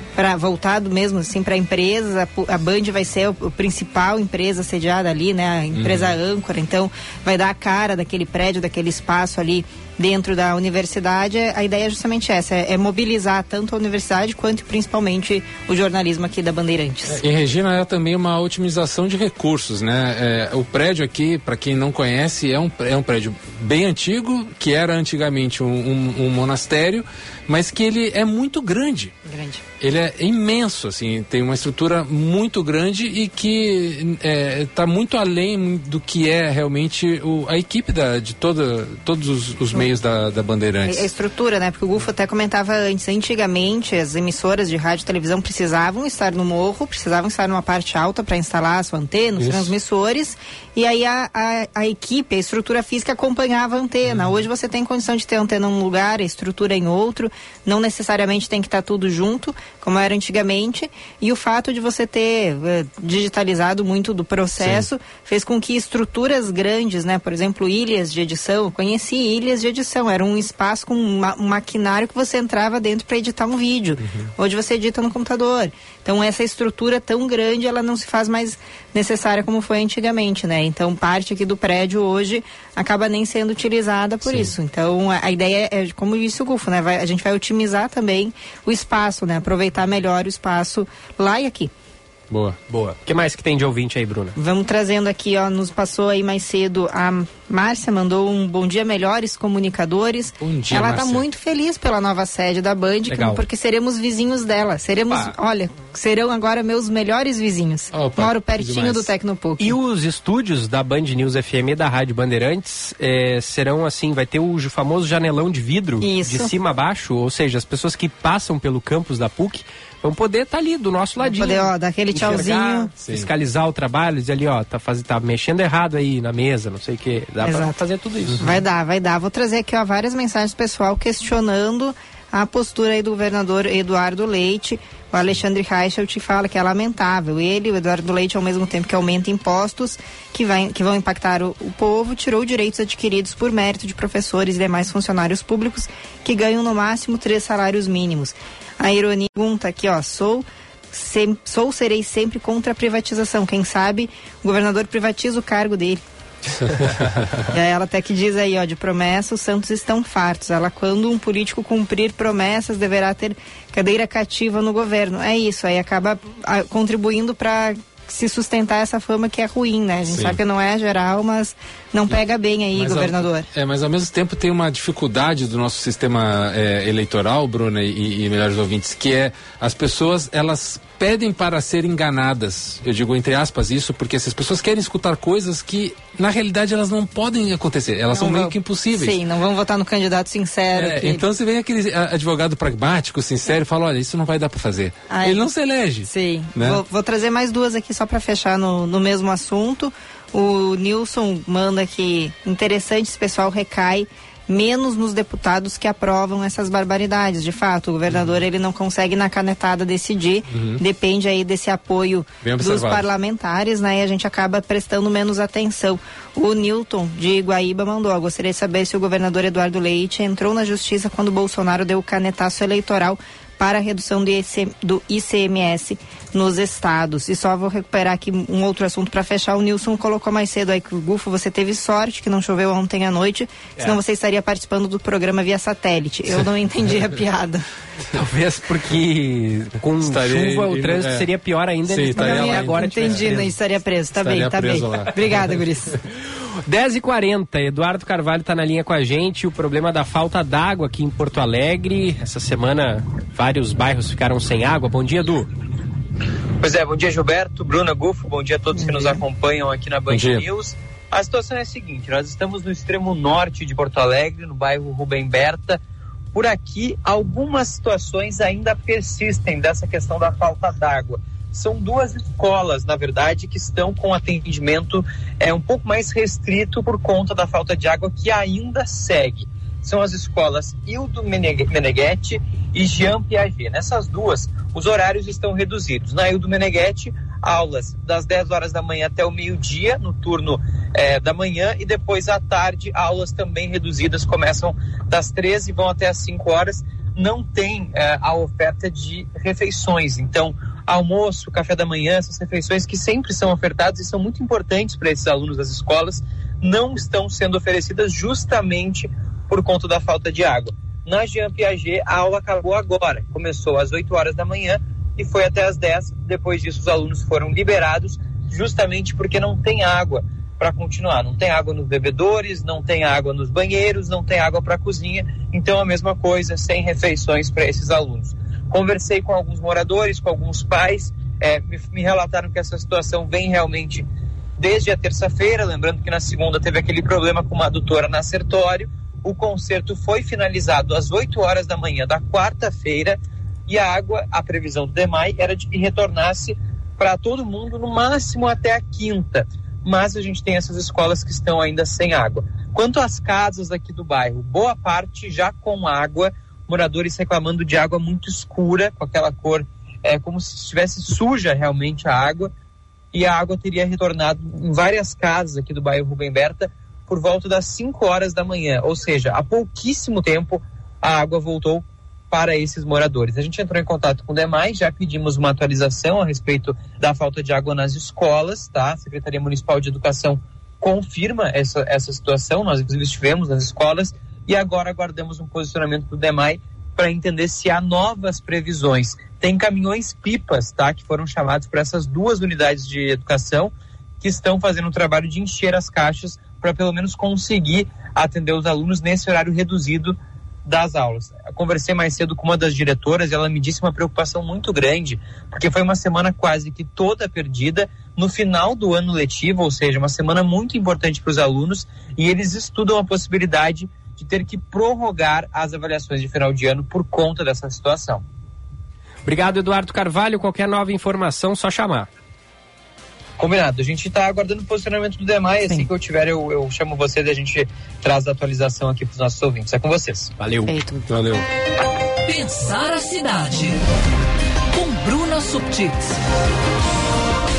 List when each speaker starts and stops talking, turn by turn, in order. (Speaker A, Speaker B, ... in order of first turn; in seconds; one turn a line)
Speaker A: 0.2-17.2
Speaker B: 5.7-6.2
Speaker B: 17.1-29.1
Speaker A: 29.3-29.6
Speaker B: 29.8-41.1
Speaker A: 40.9-91.7
Speaker B: 49.4-49.7
Speaker B: 54.1-54.4
Speaker B: 64.6-64.9
Speaker B: 74.0-74.3
Speaker B: 84.2-84.5
Speaker B: 92.3-92.6
Speaker C: 92.7-94.3
Speaker A: 94.3-109.8
Speaker B: 100.4-101.2
Speaker C: 103.1-103.4
Speaker B: 107.9-109.1
Speaker C: 109.6-128.6
Speaker A: 116.0-116.5
Speaker A: 121.2-122.9
Speaker B: 123.0-123.3
Speaker A: 127.4-127.8
Speaker A: 128.4-156.0
Speaker B: 156.5-157.5
Speaker A: 157.5-173.5
Speaker B: 170.1-170.4
Speaker B: 172.8-189.2
Speaker A: 188.1-191.3
Speaker B: 190.8-196.8
Speaker A: 195.1-195.4
Speaker A: 196.1-237.6
Speaker B: 208.1-208.4
Speaker B: 210.5-210.8
Speaker B: 212.4-213.1
Speaker C: 238.1-243.5
Speaker B: 240.0-241.3
Speaker B: 241.8-243.5
Speaker A: 242.2-245.9
Speaker B: 244.2-245.1
Speaker C: 246.7-255.5
Speaker D: 256.6-265.8
Speaker A: 258.8-259.1
Speaker B: 260.1-260.5
Speaker D: 266.3-334.1
Speaker D: 334.6-362.5
Speaker D: 363.1-418.2
Speaker C: 419.2-422.1
Speaker D: 423.4-430.3
Speaker C: 430.4-430.8
Speaker A: 430.7-431.1
Speaker B: 431.1-431.5
Speaker E: 432.3-433.8
Speaker E: 434.7-436.2